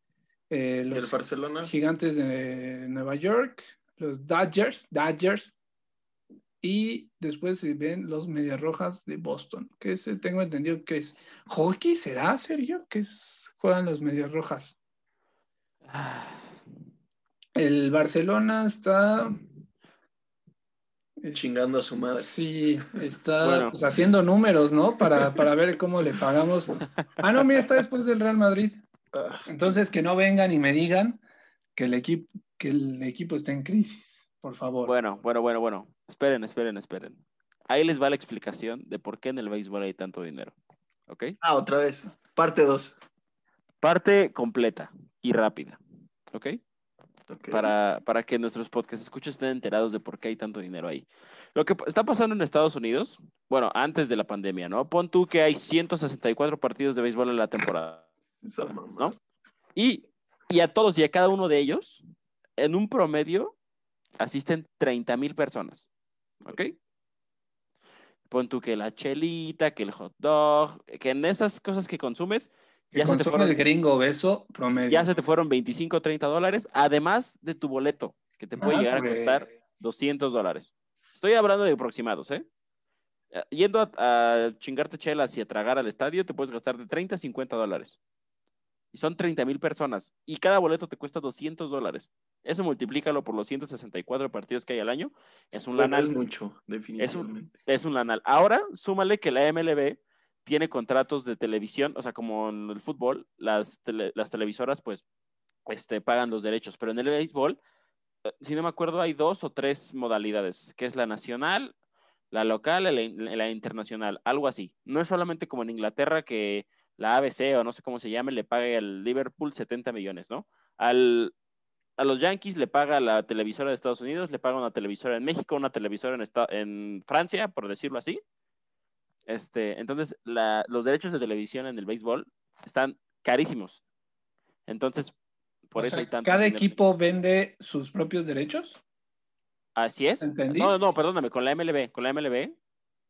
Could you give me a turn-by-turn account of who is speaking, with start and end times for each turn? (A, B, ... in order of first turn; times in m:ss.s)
0:00.5-0:05.6 A
0:00.9-0:01.7 B
0:06.6-0:14.7 A
0:15.8-0:16.5 C
0:17.5-0:19.4 A
0:21.3-0:22.4 B
0:22.1-0:28.8 A
0:23.4-0:23.7 C
0:29.1-0:29.7 B
0:29.4-0:31.2 A
0:31.7-0:34.9 A
0:34.8-0:40.5 C
0:41.1-0:41.4 C
0:41.4-0:43.0 B
0:43.8-0:45.8 C
0:46.3-0:46.6 C
0:47.3-0:47.7 B
0:47.5-0:58.1 C
0:58.4-0:59.2 B
0:59.8-1:02.0 C
1:02.6-1:03.5 C
1:04.2-1:05.9 C
1:06.4-1:06.7 C
1:08.3-1:13.6 C
1:12.9-1:15.1 A
1:14.9-1:22.4 C
1:18.6-1:19.4 A
1:23.3-1:28.0 C
1:28.9-1:36.1 C
1:35.7-1:37.5 B
1:37.0-1:45.0 C
1:45.6-1:47.6 C
1:48.2-1:51.7 C
1:52.3-2:01.3 C
2:02.0-2:08.2 C
2:09.3-2:13.8 C
2:14.7-2:15.1 C
2:15.7-2:16.8 C
2:15.8-2:18.8 A
2:19.7-2:22.5 C
2:20.2-2:20.7 A